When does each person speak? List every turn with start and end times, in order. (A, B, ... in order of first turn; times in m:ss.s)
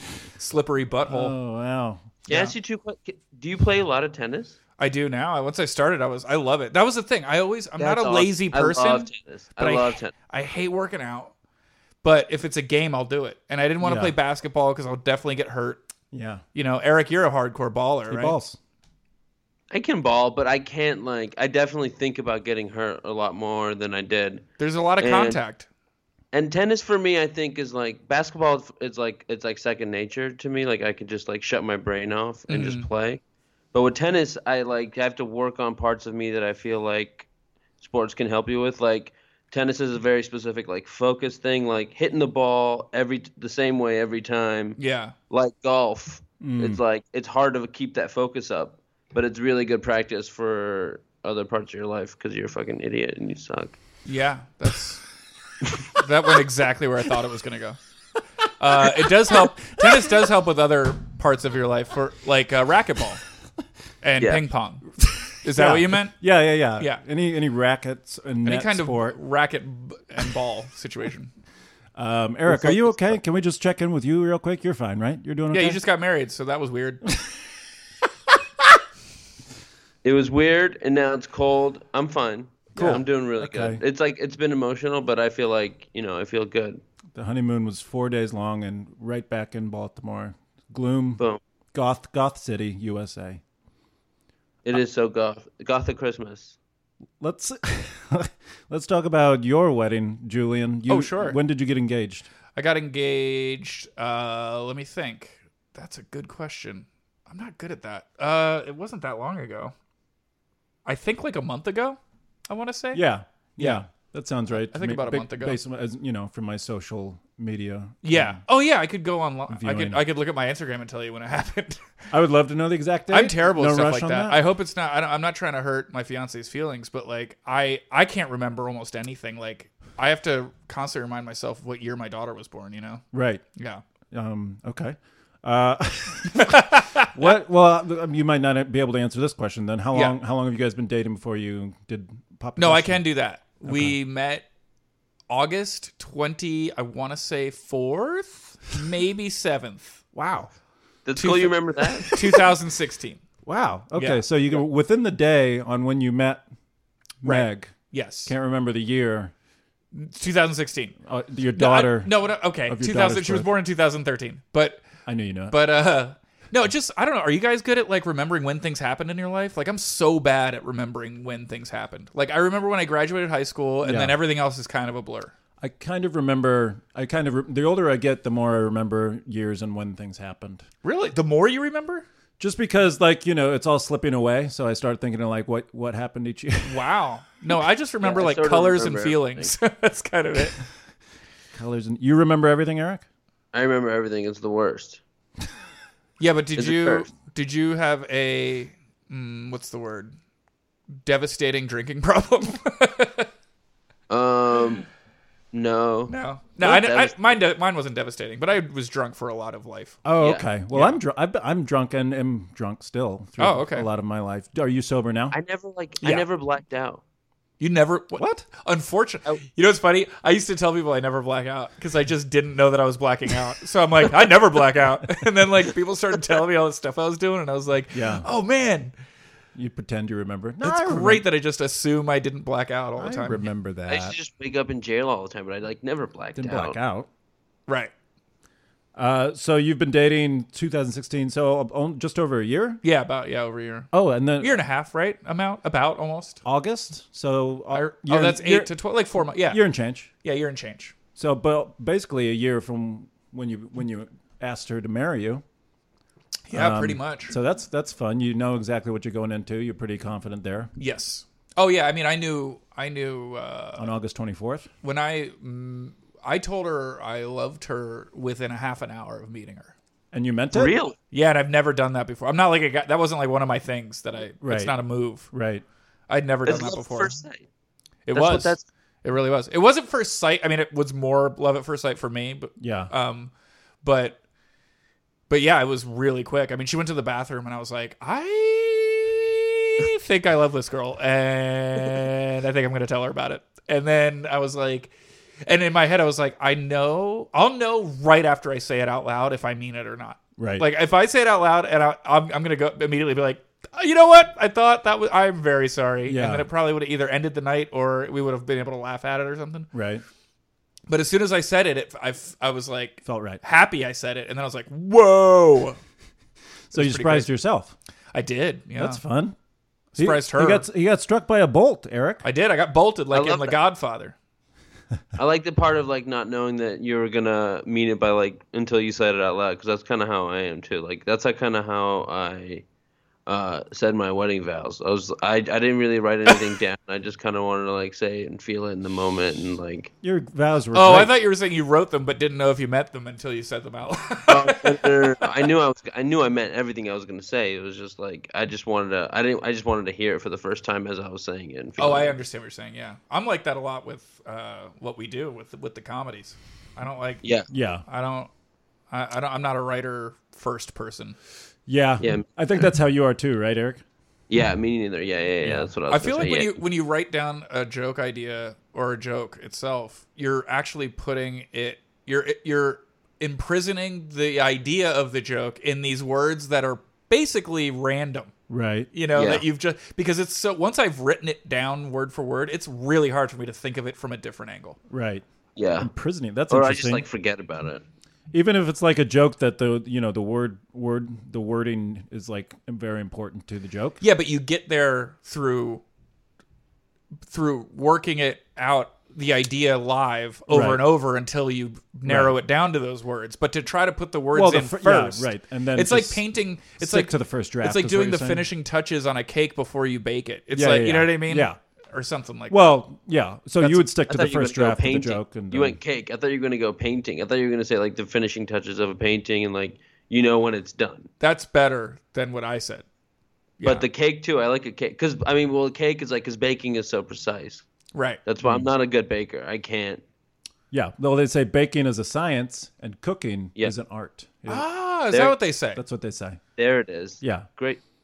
0:00.4-0:01.3 A
0:01.1-0:02.1 B
0:02.3-0:02.5 A
0:02.3-0:04.6 C
0:04.8-0:11.3 A
0:07.8-0:10.1 C
0:12.0-0:15.8 A
0:13.8-0:14.1 B
0:16.1-0:16.4 B
0:16.5-0:18.4 A
0:18.1-0:18.6 B
0:19.7-0:24.5 C
0:24.6-0:25.7 A
0:25.0-0:25.4 C
0:26.3-0:33.2 C
0:32.5-0:32.9 A
0:33.7-0:37.3 C
0:37.8-0:44.8 C
0:44.8-0:45.1 A
0:45.3-0:53.8 C
0:46.4-0:46.8 B
0:54.0-0:55.0 A
0:55.9-0:57.8 A
0:58.6-1:03.2 A
0:59.0-0:59.4 B
1:04.0-1:06.1 A
1:05.5-1:09.2 B
1:08.4-1:11.3 A
1:11.9-1:15.8 B
1:12.5-1:13.0 C
1:15.5-1:17.1 A
1:20.0-1:26.8 C
1:22.8-1:23.8 B
1:27.1-1:31.2 B
1:31.7-1:33.4 B
1:34.6-1:36.6 C
1:37.2-1:42.3 B
1:40.9-1:41.4 A
1:42.5-1:49.7 A
1:50.8-1:53.0 A
1:52.9-1:58.4 B
1:53.6-1:53.8 A
1:54.5-1:55.6 A
1:58.0-2:02.0 A
1:59.5-2:00.0 B
2:02.1-2:04.4 B
2:03.1-2:13.0 A
2:13.1-2:13.4 B
2:13.6-2:13.8 A
2:14.1-2:23.0 B
2:16.4-2:17.1 A
2:22.6-2:24.4 A
2:23.6-2:24.0 B
2:25.3-2:30.5 A
2:31.0-2:32.2 C
2:31.2-2:33.2 A
2:33.4-2:36.4 B
2:34.0-2:34.2 A
2:37.2-2:39.3 B
2:37.2-2:38.3 A
2:39.9-2:41.0 A
2:41.0-2:43.5 B
2:41.6-2:44.9 A
2:45.0-2:45.6 B
2:45.5-2:55.3 A
2:53.8-2:54.2 B
2:55.6-3:00.6 B
3:00.8-3:02.0 A
3:02.4-3:06.9 B
3:06.6-3:10.6 A
3:08.0-3:09.5 C
3:11.5-3:13.0 B
3:13.5-3:15.0 C
3:16.2-3:20.1 A
3:16.6-3:17.1 C
3:21.0-3:23.3 A
3:24.1-3:24.8 C
3:25.5-3:27.2 C
3:26.1-3:30.0 A
3:30.0-3:35.4 B
3:30.2-3:30.5 C
3:30.7-3:31.0 A
3:33.4-3:33.9 A
3:35.3-3:37.0 C
3:37.6-3:48.9 A
3:38.2-3:38.4 B
3:47.9-3:48.3 B
3:49.5-3:51.2 B
3:50.6-3:53.4 A
3:53.0-3:54.1 B
3:53.9-3:56.8 C
3:56.3-3:57.1 B
3:57.7-3:57.9 A
3:58.9-4:02.8 B
4:02.8-4:06.4 A
4:03.9-4:04.6 B
4:06.4-4:10.1 B
4:07.7-4:09.6 A
4:10.2-4:10.9 A
4:11.2-4:15.4 B
4:16.5-4:17.4 A
4:16.5-4:20.7 B
4:20.8-4:23.9 A
4:23.8-4:24.7 B
4:24.8-4:29.7 A
4:30.1-4:30.7 B
4:30.5-4:31.0 C
4:31.1-4:35.3 A
4:34.4-4:34.7 B
4:35.3-4:35.6 B
4:36.1-4:37.2 A
4:36.4-4:37.4 C
4:38.1-4:43.3 A
4:38.1-4:38.6 C
4:42.6-4:42.9 B
4:43.8-4:44.2 A
4:45.3-4:54.9 A
4:55.4-5:09.7 A
5:00.4-5:00.7 B
5:06.0-5:06.5 B
5:09.7-5:10.0 B
5:10.9-5:15.8 A
5:13.0-5:13.4 B
5:16.7-5:17.7 B
5:16.7-5:17.3 A
5:18.1-5:19.0 A
5:18.8-5:19.4 B
5:19.9-5:20.6 A
5:20.0-5:22.2 B
5:22.2-5:24.1 A
5:23.1-5:23.6 C
5:25.2-5:32.6 C
5:33.3-5:39.9 C
5:40.0-5:41.1 B
5:40.7-5:45.0 A
5:44.3-5:52.2 C
5:51.8-5:57.2 A
5:57.5-5:57.8 B
5:57.9-5:58.3 A
5:58.9-6:01.2 A
6:01.7-6:03.8 B
6:02.0-6:02.3 C
6:04.3-6:06.6 C
6:05.4-6:05.7 B
6:05.9-6:18.3 A
6:18.5-6:18.9 B
6:18.9-6:24.8 A
6:19.1-6:19.4 C
6:24.9-6:25.2 B
6:25.6-6:25.9 C
6:25.8-6:27.0 B
6:26.5-6:27.8 C
6:28.3-6:34.0 B
6:34.0-6:35.8 A
6:37.3-6:52.8 A
6:40.5-6:40.8 B
6:42.0-6:42.4 B
6:44.3-6:48.5 B
6:50.5-6:51.6 B
6:52.5-6:55.8 B
6:53.6-6:53.9 A
6:54.0-7:01.1 C
7:01.2-7:02.8 A
7:03.6-7:03.8 A
7:03.6-7:07.6 C
7:07.9-7:08.2 A
7:08.2-7:10.0 C
7:08.4-7:08.7 B
7:10.7-7:14.7 B
7:14.5-7:15.8 A
7:15.1-7:15.4 C
7:15.7-7:16.4 B
7:16.6-7:17.8 C
7:17.2-7:17.4 B